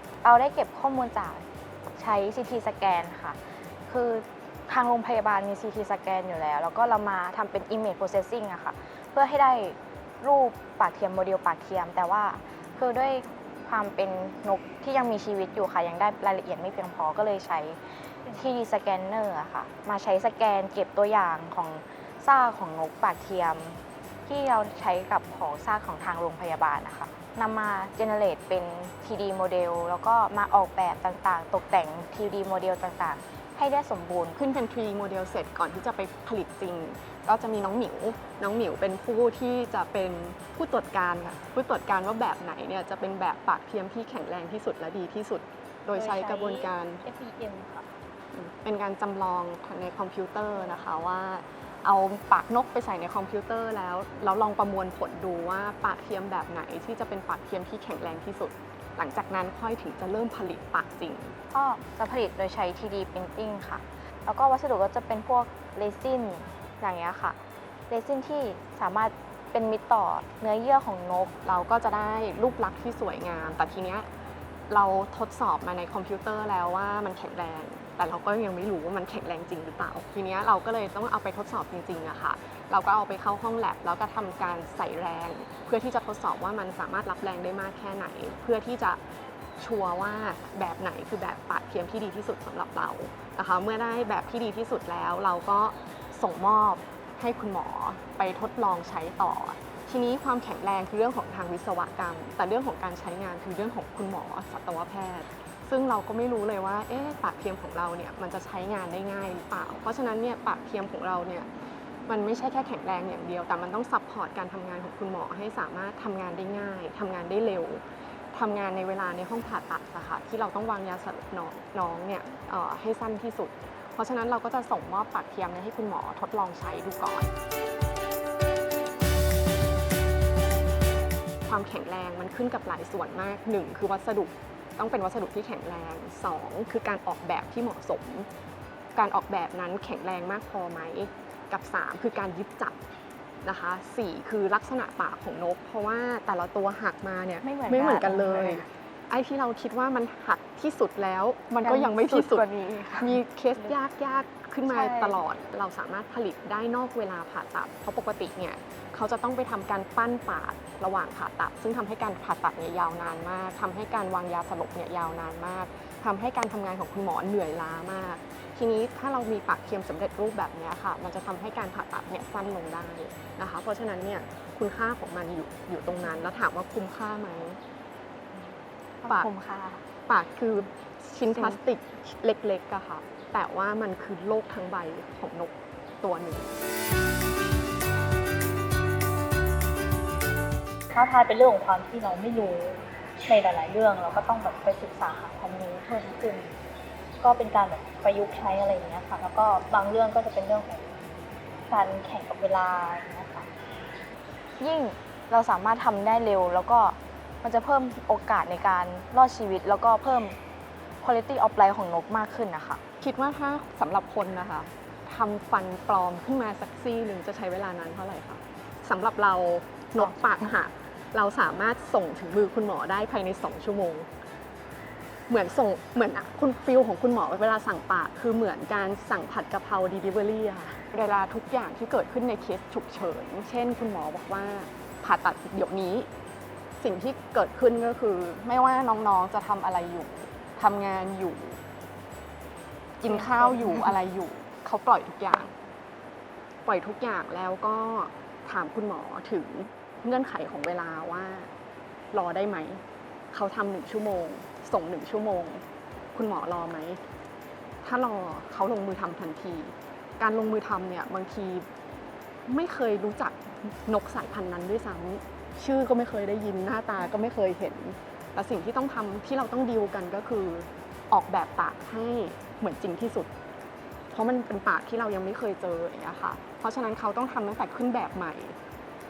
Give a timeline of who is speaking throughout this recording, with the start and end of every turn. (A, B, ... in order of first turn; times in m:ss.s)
0:00.2-0:34.4 A
0:34.3-0:47.0 B
0:46.0-0:47.9 C
0:48.3-1:01.4 B
1:01.5-1:07.4 A
1:07.9-1:11.3 A
1:11.4-1:14.1 B
1:14.7-1:29.0 B
1:29.6-1:51.5 B
1:52.1-2:07.3 B
2:11.4-2:18.3 B
2:18.9-2:22.8 B
2:23.4-2:57.6 B
2:27.4-2:28.6 A
2:31.6-2:33.7 A
2:34.7-2:35.2 A
2:58.3-2:59.8 A
3:00.1-3:06.6 B
3:10.9-3:16.5 C
3:17.2-3:21.0 C
3:21.7-3:23.5 C
3:24.6-3:30.4 A
3:31.0-3:32.8 A
3:33.0-3:44.1 B
3:45.3-3:56.1 B
3:56.8-4:01.6 B
4:03.0-4:05.5 B
4:03.0-4:03.9 A
4:06.6-4:11.5 B
4:12.1-4:17.0 B
4:17.8-4:21.7 B
4:22.5-4:33.3 B
4:34.1-4:38.6 B